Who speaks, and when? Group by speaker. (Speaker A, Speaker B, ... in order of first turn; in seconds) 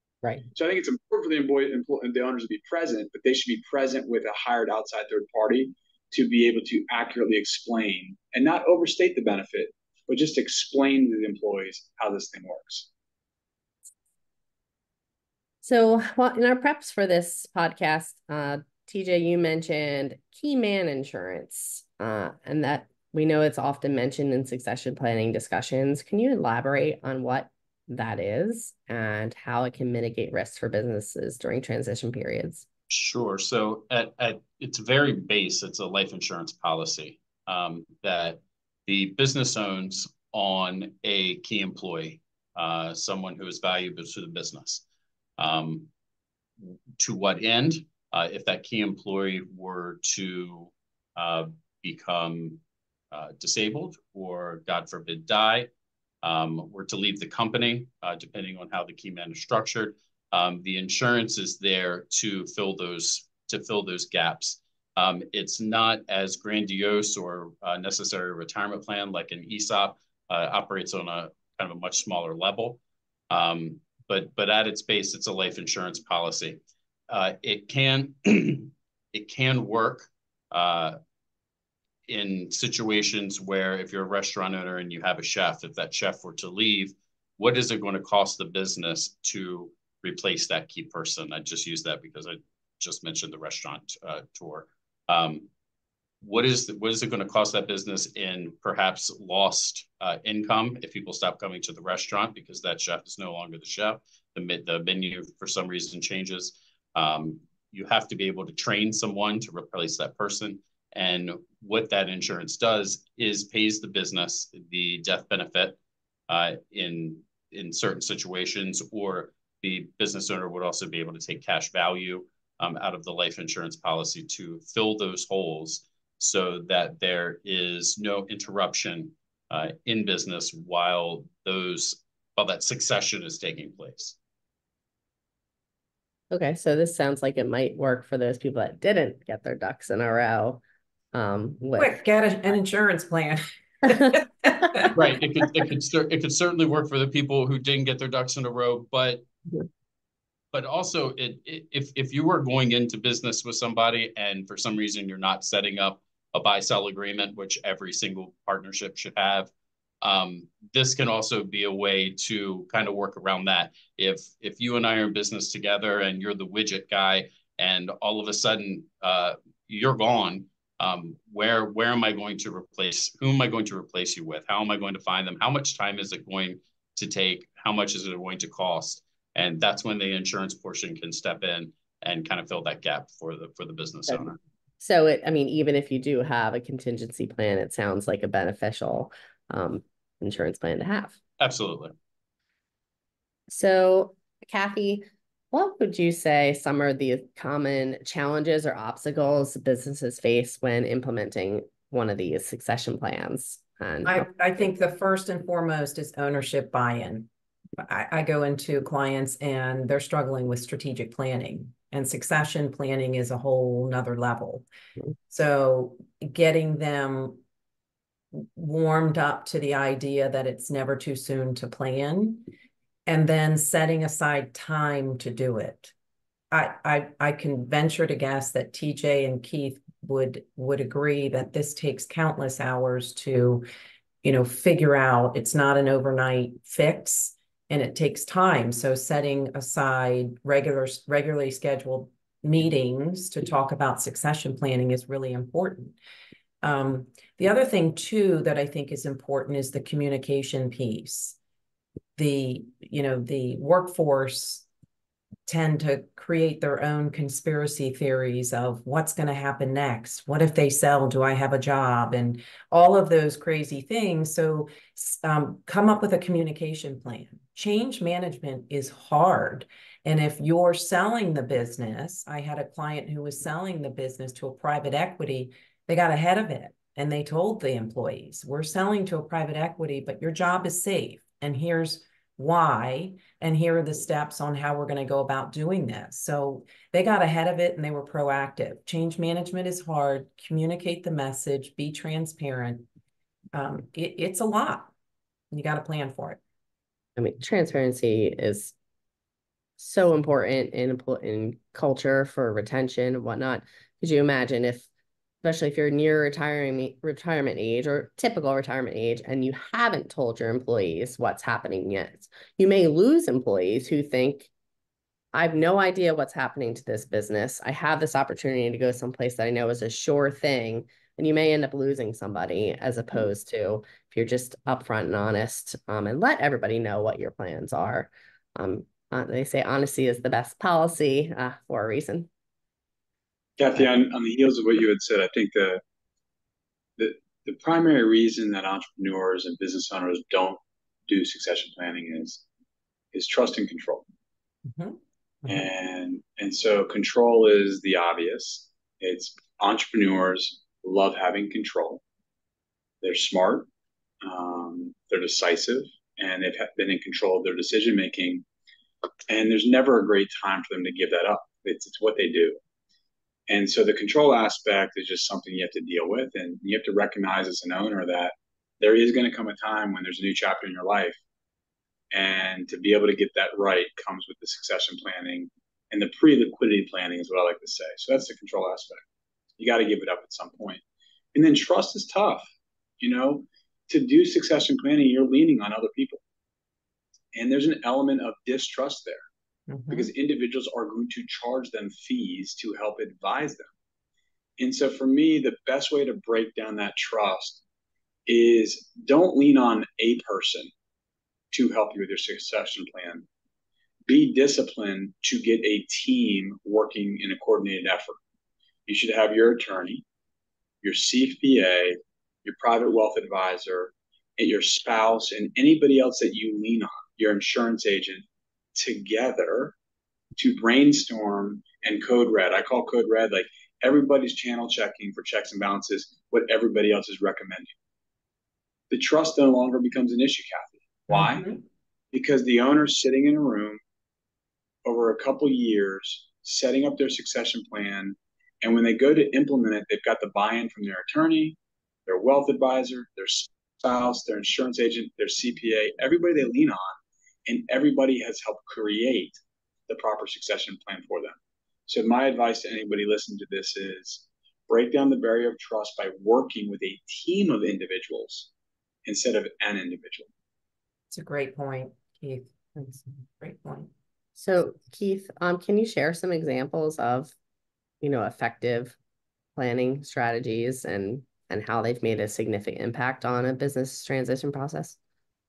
Speaker A: 0.5-12.9, 333.6-335.8, 337.0-342.4, 343.1-344.0, 345.4-352.0, 353.0-353.7, 354.2-358.4, 359.3-362.6, 363.5-371.2, 372.1-379.0, 379.6-380.8, 381.3-382.4, 383.0-386.2, 387.3-389.2, 389.9-393.7, 394.6-397.6, 398.3-400.7, 401.5-403.2, 404.1-408.2, 408.9-410.0, 410.8-419.7, 420.3-427.7, 428.9-431.6, 432.1-433.8, 434.8-446.9, 447.4-458.5, 459.0-460.3
Speaker B: 15.6-32.6, 136.3-140.6, 141.1-141.9, 184.8-191.2, 193.5-204.3, 297.2-298.7, 299.8-304.9, 305.4-314.5, 315.3-332.3, 464.4-467.3, 468.0-468.9, 469.6-475.0
Speaker C: 32.9-44.8, 45.4-45.9, 46.6-52.6, 53.1-55.7, 56.2-72.8, 73.3-81.0, 82.1-95.5, 96.2-115.8, 116.3-134.1, 144.9-149.2, 150.5-159.5, 160.0-184.4, 191.4-191.9
Speaker D: 141.8-145.0, 204.0-214.7, 215.3-217.4, 218.3-222.5, 223.1-225.9, 226.5-233.6, 234.2-246.0, 246.6-251.3, 252.2-254.7, 255.5-292.9, 293.5-294.9, 295.5-296.4, 344.7-345.5, 389.7-390.1, 431.1-431.6, 461.1-463.9